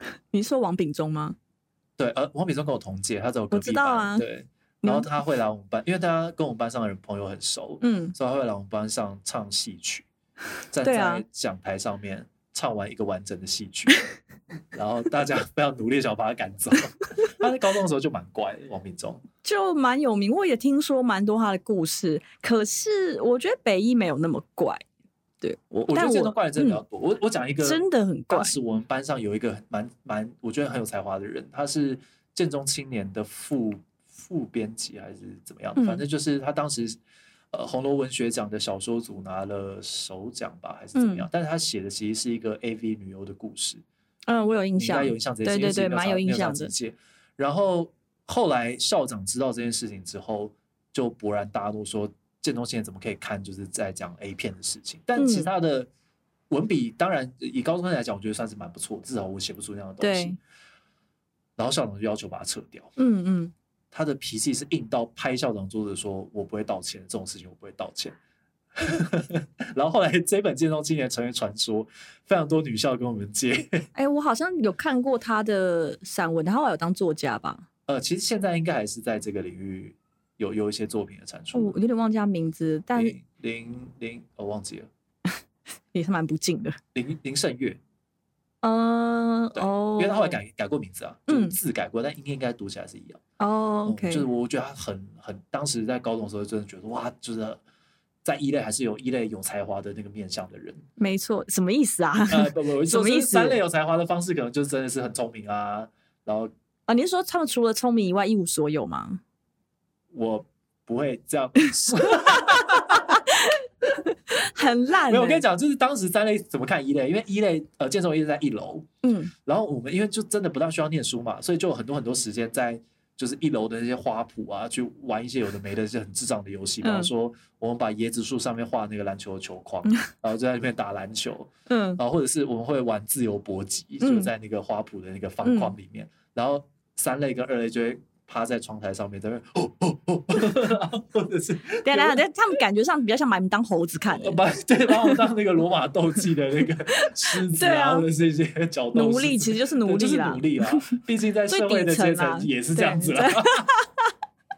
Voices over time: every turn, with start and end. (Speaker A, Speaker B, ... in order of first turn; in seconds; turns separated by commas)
Speaker A: 0.3-1.4, Speaker B: 2.0-10.1, Speaker A: 3.5-4.3, Speaker A: 7.8-8.2, Speaker B: 10.7-14.0, Speaker A: 10.8-11.2, Speaker B: 14.7-19.2, Speaker A: 19.4-24.8, Speaker A: 25.4-26.8, Speaker B: 25.9-37.0, Speaker A: 27.6-28.6, Speaker A: 35.8-36.0, Speaker B: 37.5-43.8, Speaker A: 41.0-41.3, Speaker A: 44.3-46.7, Speaker B: 44.8-55.9, Speaker A: 55.2-55.5, Speaker B: 56.5-60.4, Speaker A: 60.0-60.4, Speaker B: 61.6-62.9, Speaker A: 63.0-63.5, Speaker B: 63.9-68.2, Speaker B: 68.8-73.9, Speaker A: 74.0-77.7, Speaker B: 77.9-81.8, Speaker A: 81.5-83.2, Speaker B: 83.0-84.9, Speaker A: 85.9-86.8, Speaker B: 87.0-87.8, Speaker A: 88.6-90.4, Speaker B: 89.5-93.2, Speaker A: 91.3-91.6, Speaker A: 93.4-94.3, Speaker B: 93.9-97.6, Speaker B: 98.2-100.8, Speaker A: 101.0-103.6, Speaker B: 102.3-106.5, Speaker A: 106.9-109.2, Speaker B: 110.1-113.2, Speaker A: 111.9-115.4, Speaker B: 115.1-118.9, Speaker A: 119.0-119.3, Speaker B: 119.5-142.2, Speaker A: 126.8-127.1, Speaker A: 131.7-132.0, Speaker A: 134.0-134.3, Speaker A: 135.4-135.7, Speaker A: 141.8-145.2, Speaker B: 144.1-153.7, Speaker A: 147.3-148.1, Speaker A: 148.9-150.9, Speaker A: 151.5-154.1